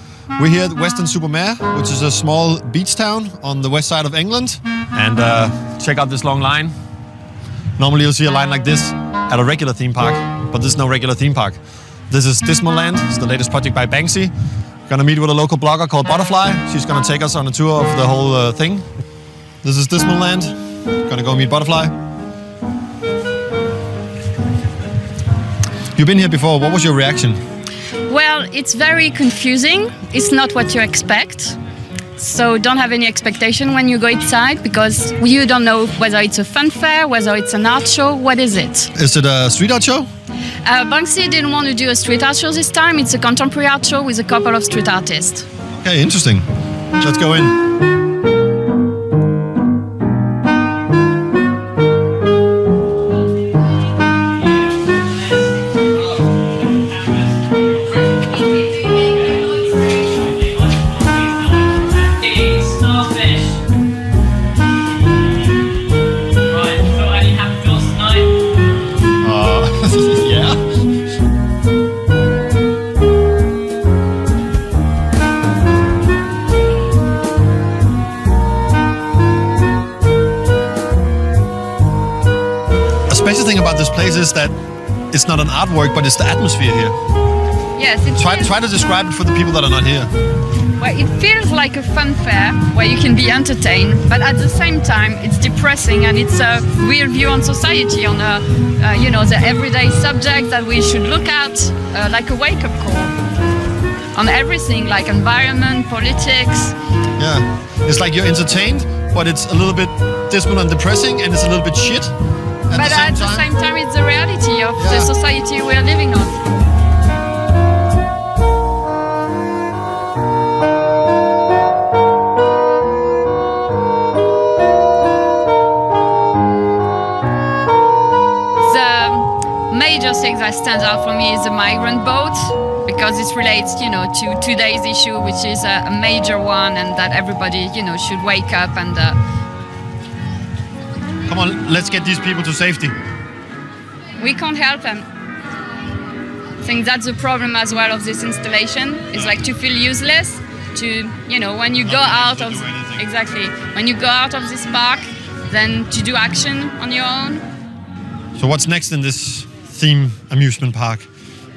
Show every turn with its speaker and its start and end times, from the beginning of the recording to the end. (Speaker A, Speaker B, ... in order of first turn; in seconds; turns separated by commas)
Speaker A: 0.4-6.7, Speaker A: 7.8-11.6, Speaker A: 12.1-14.3, Speaker A: 14.9-18.9, Speaker A: 19.6-20.6, Speaker A: 21.1-21.9, Speaker A: 26.0-27.4, Speaker B: 28.1-31.6, Speaker B: 32.2-38.9, Speaker A: 39.0-40.1, Speaker B: 40.6-45.5, Speaker A: 45.7-46.5, Speaker A: 47.0-47.5, Speaker B: 59.1-63.6, Speaker B: 66.5-68.3, Speaker A: 69.2-70.6, Speaker A: 83.1-84.6, Speaker A: 85.1-87.0, Speaker B: 87.8-88.6, Speaker A: 88.2-90.1, Speaker B: 90.8-103.1, Speaker B: 104.1-106.8, Speaker A: 107.2-112.1, Speaker A: 112.7-113.5, Speaker B: 112.7-116.4, Speaker A: 114.8-115.1, Speaker B: 128.6-139.2, Speaker A: 141.3-142.9, Speaker B: 144.2-145.1, Speaker B: 146.6-157.5, Speaker A: 149.1-149.4, Speaker A: 151.8-153.1, Speaker A: 158.4-161.1